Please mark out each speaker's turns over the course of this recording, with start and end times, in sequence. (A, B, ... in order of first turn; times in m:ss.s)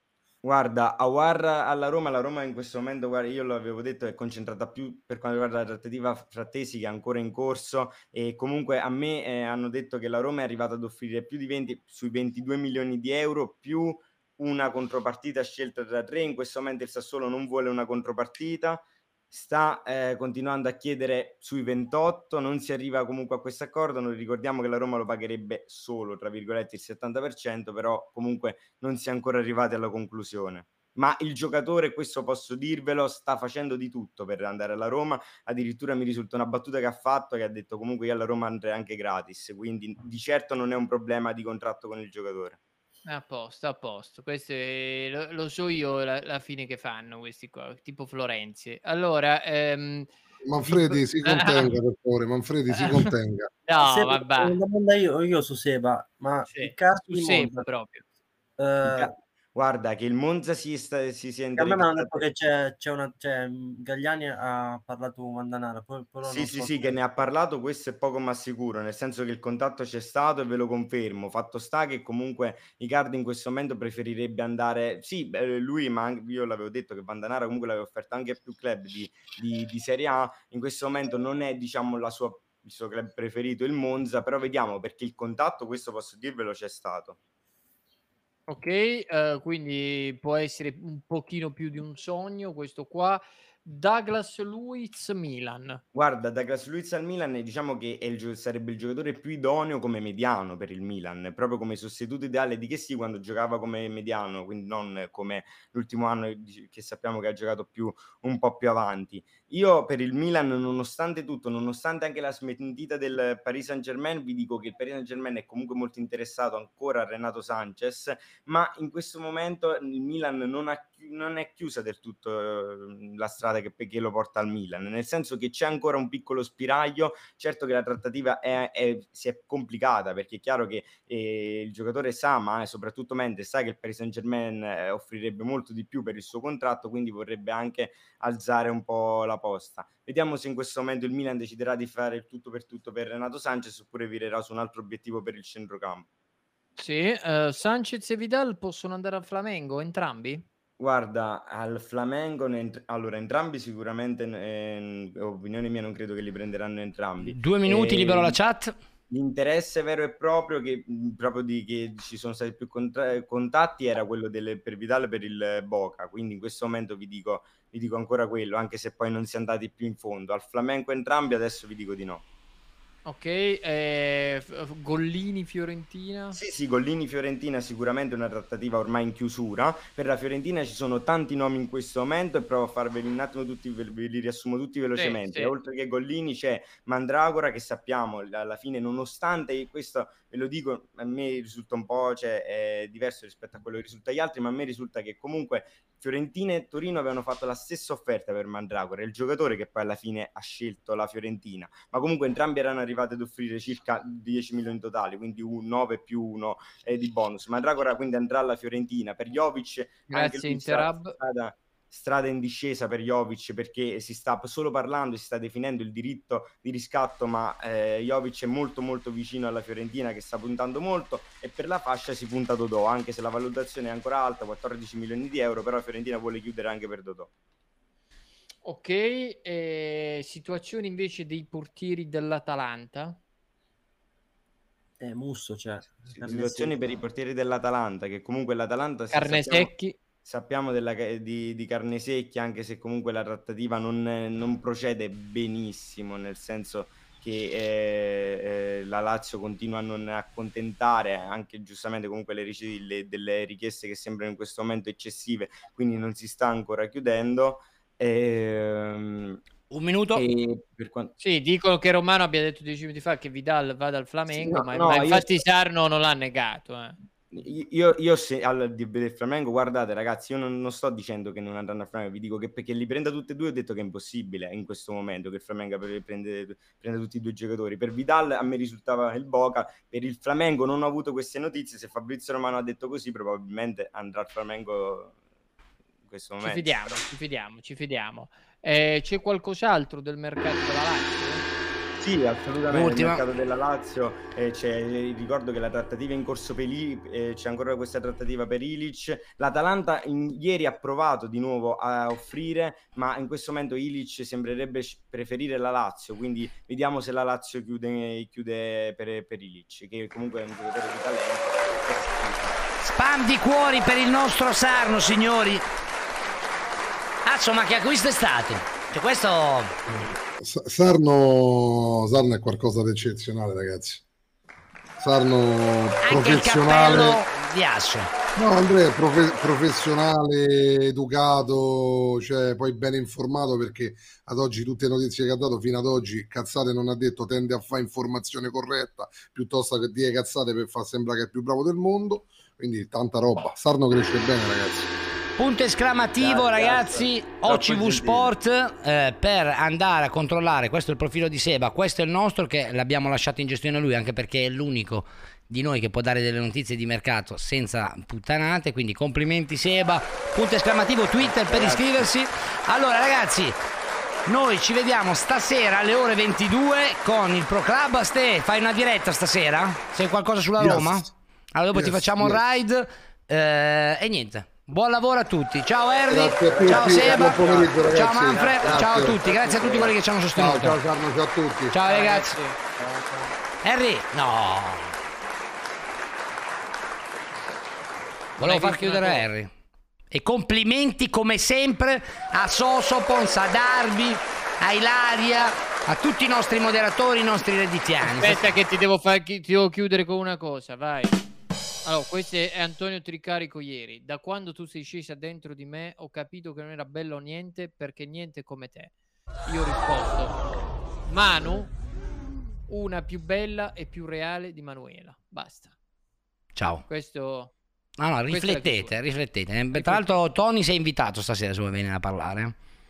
0:00.4-0:42.6 A
0:43.1-0:50.1 B
0:50.5-0:53.5 C
0:50.6-0:51.7 B
0:52.7-0:53.1 B
0:53.7-0:54.6 B
0:53.8-0:57.7 D
0:56.5-0:58.0 B
0:58.6-0:59.2 D
0:58.8-1:02.3 A
1:01.6-1:07.0 D
1:06.2-1:27.2 A
1:28.5-1:35.8 B
1:35.9-2:26.1 A
2:26.8-2:30.4 B
2:30.8-2:38.4 A
2:37.2-2:38.8 E
2:39.1-2:52.2 A
2:53.0-2:56.4 B
2:56.3-3:47.3 A
3:05.0-3:05.5 B
3:30.1-3:31.2 B
3:48.6-3:53.2 B
3:55.0-3:57.0 D
3:56.2-3:59.7 A
3:59.1-4:00.0 B
4:00.2-4:19.4 A
4:19.7-4:20.2 E
4:20.1-4:21.1 A
4:21.2-4:27.0 B
4:24.8-4:25.2 A
4:27.3-4:45.2 A
4:46.1-4:47.0 A
4:46.4-4:51.4 B
4:52.0-5:12.6 A
4:52.7-4:53.2 E
5:12.8-5:15.7 E
5:17.2-5:19.8 E
5:19.9-5:24.0 C
5:25.0-5:27.2 C
5:26.0-5:28.1 E
5:28.4-5:44.9 C
5:45.4-6:03.6 E
5:46.2-5:48.3 A
6:04.3-6:20.8 E
6:10.6-6:11.1 C
6:11.7-6:12.4 C
6:16.1-6:21.8 C
6:17.1-6:17.4 D
6:21.7-6:22.4 E
6:21.9-6:22.6 B
6:22.8-6:23.3 D
6:23.6-6:24.9 E
6:28.4-6:29.2 B
6:28.4-6:29.5 E
6:30.1-6:38.5 E
6:38.0-6:41.2 B
6:41.8-6:48.9 B
6:49.5-6:50.4 B
6:51.1-6:51.7 B
6:52.7-6:55.8 B
6:56.6-6:56.8 E
6:56.9-6:57.5 B
6:58.0-7:02.6 E
6:58.3-6:59.0 B
6:59.7-7:00.2 B